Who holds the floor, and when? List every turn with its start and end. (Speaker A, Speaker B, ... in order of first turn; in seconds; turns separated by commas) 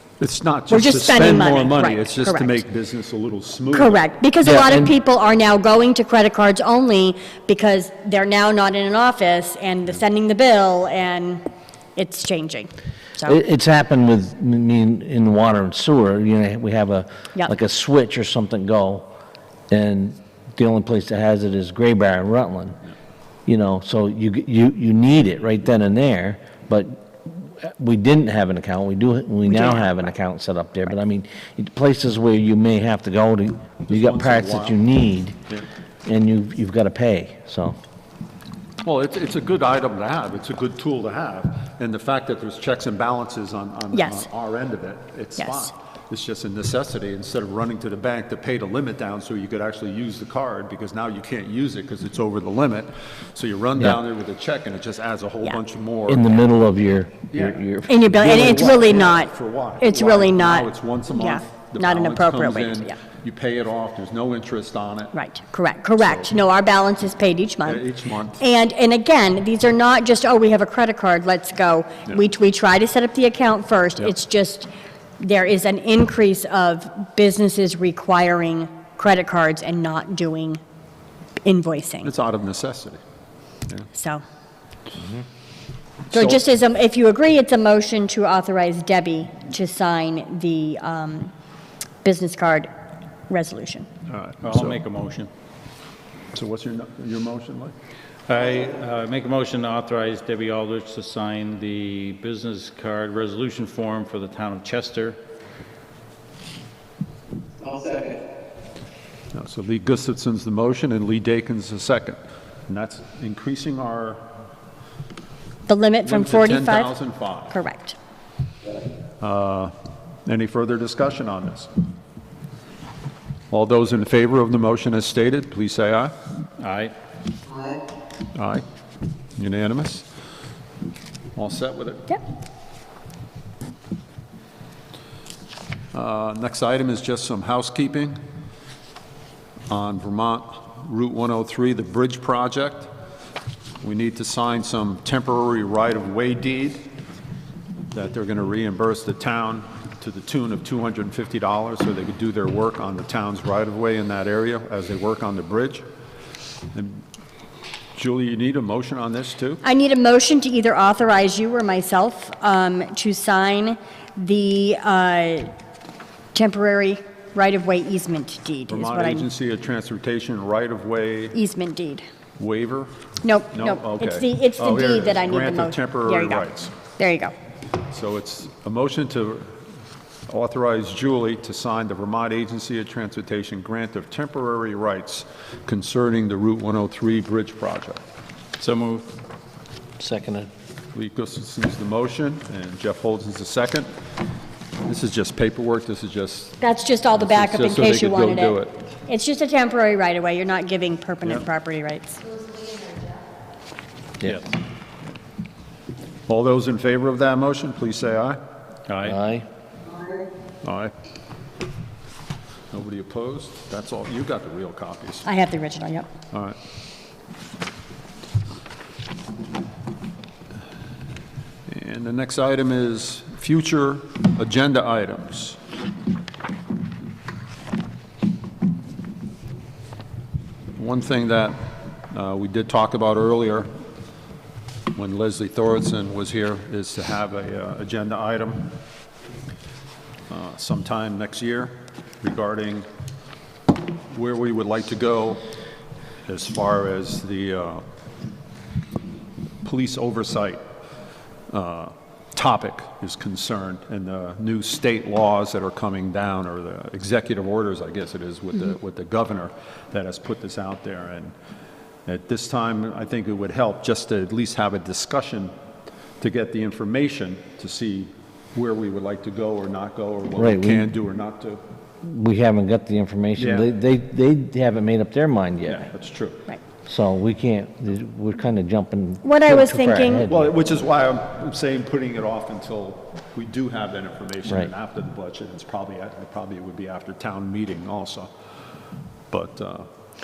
Speaker A: 0.2-4.0, Speaker B: 0.7-2.6, Speaker B: 3.7-11.4, Speaker C: 4.4-4.9, Speaker B: 12.0-13.4, Speaker C: 13.2-19.1, Speaker C: 19.7-22.8, Speaker C: 23.5-35.4, Speaker B: 29.5-30.0, Speaker A: 33.9-34.8, Speaker C: 36.1-37.8, Speaker A: 38.8-56.3, Speaker B: 43.9-44.3, Speaker B: 45.4-45.7, Speaker C: 56.1-58.8, Speaker A: 57.3-65.1, Speaker B: 57.9-63.0, Speaker B: 65.1-67.9, Speaker A: 66.0-66.3, Speaker A: 67.7-68.4, Speaker B: 68.4-80.6, Speaker B: 81.4-82.1, Speaker A: 82.0-83.0, Speaker B: 83.9-84.2, Speaker A: 86.1-86.4, Speaker B: 86.1-91.3, Speaker B: 92.0-92.7, Speaker B: 93.3-93.9, Speaker A: 94.1-94.8, Speaker D: 94.4-95.3, Speaker A: 96.3-97.7, Speaker D: 98.3-105.2, Speaker A: 109.3-114.2, Speaker B: 115.7-116.9, Speaker A: 116.0-117.6, Speaker B: 117.5-118.0, Speaker A: 119.2-119.7, Speaker A: 120.3-121.7, Speaker A: 123.5-126.1, Speaker D: 126.6-126.9, Speaker A: 128.3-128.6, Speaker A: 129.4-130.1, Speaker A: 131.4-132.1, Speaker A: 135.9-138.2, Speaker A: 139.7-142.9, Speaker A: 143.8-146.9, Speaker A: 147.9-155.8, Speaker A: 156.7-157.0, Speaker A: 158.0-159.6, Speaker B: 159.6-165.5, Speaker B: 166.3-169.3, Speaker A: 168.7-171.4, Speaker B: 171.3-172.1, Speaker A: 172.4-173.0, Speaker B: 173.2-177.3, Speaker A: 173.5-176.7, Speaker A: 177.9-179.5, Speaker A: 180.3-188.0, Speaker D: 188.6-189.1, Speaker C: 190.0-190.5, Speaker A: 190.9-193.9, Speaker A: 194.9-196.6, Speaker B: 196.6-202.4, Speaker A: 197.2-198.8, Speaker C: 204.2-204.5, Speaker A: 206.3-208.4, Speaker D: 208.9-209.2, Speaker C: 209.0-209.5, Speaker A: 210.6-210.9, Speaker A: 212.7-215.3, Speaker B: 215.2-216.1, Speaker A: 216.3-216.6, Speaker A: 221.7-225.6, Speaker A: 230.8-233.7, Speaker A: 235.0-238.7, Speaker A: 240.3-242.9, Speaker A: 244.1-245.4, Speaker A: 246.3-247.8, Speaker A: 249.6-250.6, Speaker A: 251.5-261.3, Speaker A: 262.1-265.5, Speaker A: 266.2-271.6, Speaker C: 270.4-270.9, Speaker C: 272.0-275.9, Speaker A: 273.4-273.7, Speaker A: 275.7-276.4, Speaker C: 276.9-280.4, Speaker B: 279.2-280.3, Speaker A: 280.2-288.3, Speaker C: 284.4-284.7, Speaker A: 289.3-289.9